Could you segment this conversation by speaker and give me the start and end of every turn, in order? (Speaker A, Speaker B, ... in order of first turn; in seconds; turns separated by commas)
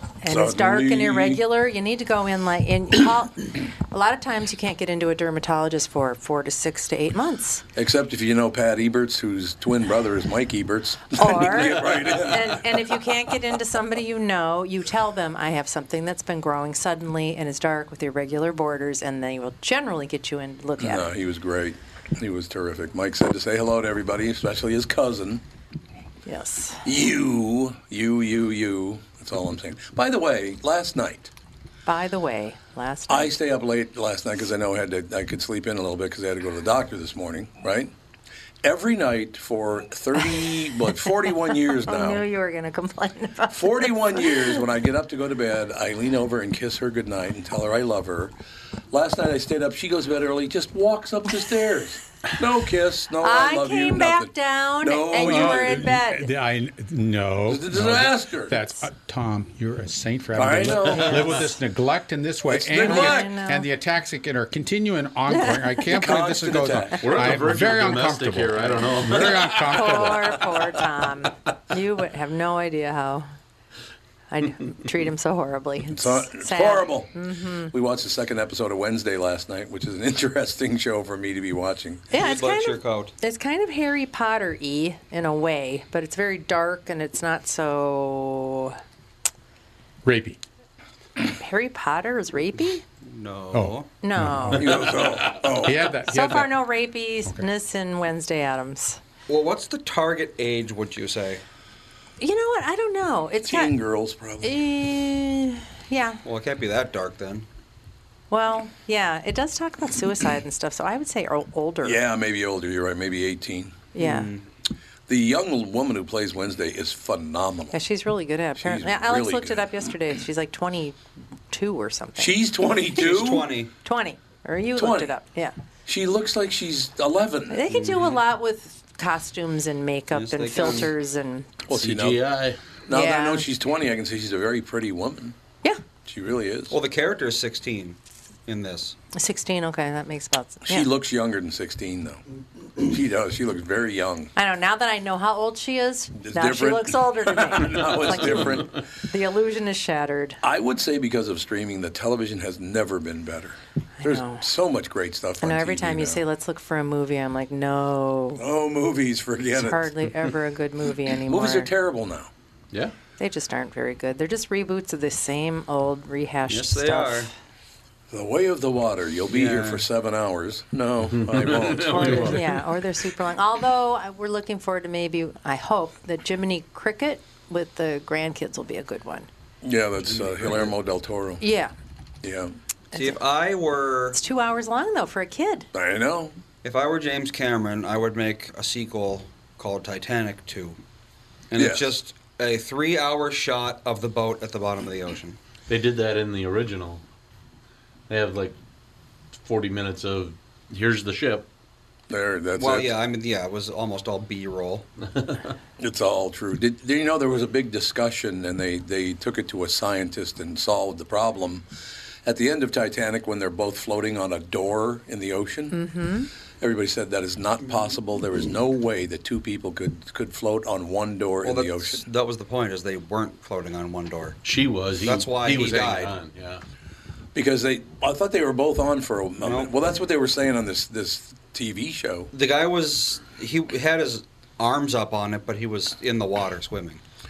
Speaker A: 0.2-7.6, Speaker B: 0.3-1.4, Speaker B: 7.8-12.6, Speaker A: 11.2-21.1, Speaker B: 20.8-25.4, Speaker A: 26.2-26.9, Speaker B: 26.9-31.3, Speaker A: 31.9-33.3, Speaker B: 33.1-37.9, Speaker B: 38.6-42.2, Speaker A: 41.5-44.4, Speaker B: 43.5-48.3, Speaker B: 48.9-54.3, Speaker A: 53.2-56.3, Speaker B: 54.8-55.9, Speaker C: 55.1-70.4, Speaker B: 57.5-58.6, Speaker B: 60.4-61.5, Speaker B: 62.5-63.4, Speaker A: 62.8-63.7, Speaker A: 65.3-65.8, Speaker B: 65.9-67.4, Speaker D: 67.0-69.6, Speaker A: 69.7-73.2, Speaker A: 74.3-77.7, Speaker B: 75.9-77.1, Speaker B: 77.7-82.1, Speaker A: 82.1-88.8, Speaker E: 82.1-83.2, Speaker C: 90.0-90.4, Speaker A: 91.4-92.8, Speaker E: 93.1-93.9, Speaker C: 93.5-94.9, Speaker A: 94.0-94.7, Speaker B: 94.5-95.9, Speaker C: 95.6-96.6, Speaker A: 96.1-99.0, Speaker E: 99.3-101.4, Speaker A: 102.2-103.7, Speaker B: 103.5-104.6, Speaker A: 104.4-106.2, Speaker E: 106.2-107.5, Speaker A: 108.3-112.0, Speaker B: 111.8-113.8, Speaker A: 113.9-114.3, Speaker E: 114.0-114.4, Speaker B: 115.1-117.8, Speaker A: 117.7-121.0, Speaker B: 118.6-119.9, Speaker A: 121.5-122.3, Speaker B: 122.2-123.6, Speaker E: 122.9-123.7, Speaker A: 123.8-125.5, Speaker B: 124.8-125.1, Speaker B: 125.9-127.9, Speaker A: 127.5-131.5, Speaker E: 127.7-128.1, Speaker E: 130.1-130.9, Speaker B: 131.7-132.2, Speaker D: 131.7-132.6, Speaker B: 132.9-135.3, Speaker A: 132.9-133.5, Speaker B: 136.1-136.8, Speaker E: 136.7-139.0, Speaker A: 139.1-140.9, Speaker B: 140.7-142.2, Speaker B: 142.9-144.3, Speaker A: 144.3-150.4, Speaker B: 146.2-148.7, Speaker B: 150.4-156.2, Speaker A: 154.0-154.4, Speaker A: 155.4-158.4, Speaker B: 158.4-159.9, Speaker A: 159.6-161.7, Speaker B: 161.3-162.3, Speaker A: 163.2-167.3, Speaker E: 166.5-167.3, Speaker B: 168.1-172.4, Speaker E: 169.3-169.8, Speaker D: 171.1-172.6, Speaker A: 171.9-179.3, Speaker B: 179.6-181.4, Speaker D: 180.2-180.7, Speaker A: 181.4-181.7, Speaker B: 182.2-182.5, Speaker A: 182.9-183.2, Speaker E: 182.9-184.2, Speaker A: 184.1-185.7, Speaker B: 185.7-186.3, Speaker E: 186.6-190.8, Speaker E: 191.5-195.4, Speaker B: 191.6-191.9, Speaker D: 195.7-197.0, Speaker D: 198.1-198.6, Speaker D: 199.4-201.5, Speaker B: 202.1-202.9, Speaker E: 202.6-204.9, Speaker D: 205.1-205.5, Speaker B: 205.8-211.7, Speaker B: 212.2-215.8, Speaker A: 215.7-216.3, Speaker B: 216.6-222.0, Speaker E: 221.4-224.4, Speaker D: 224.4-226.6, Speaker E: 225.0-226.1, Speaker B: 227.3-232.3, Speaker E: 229.4-229.7, Speaker E: 232.3-237.0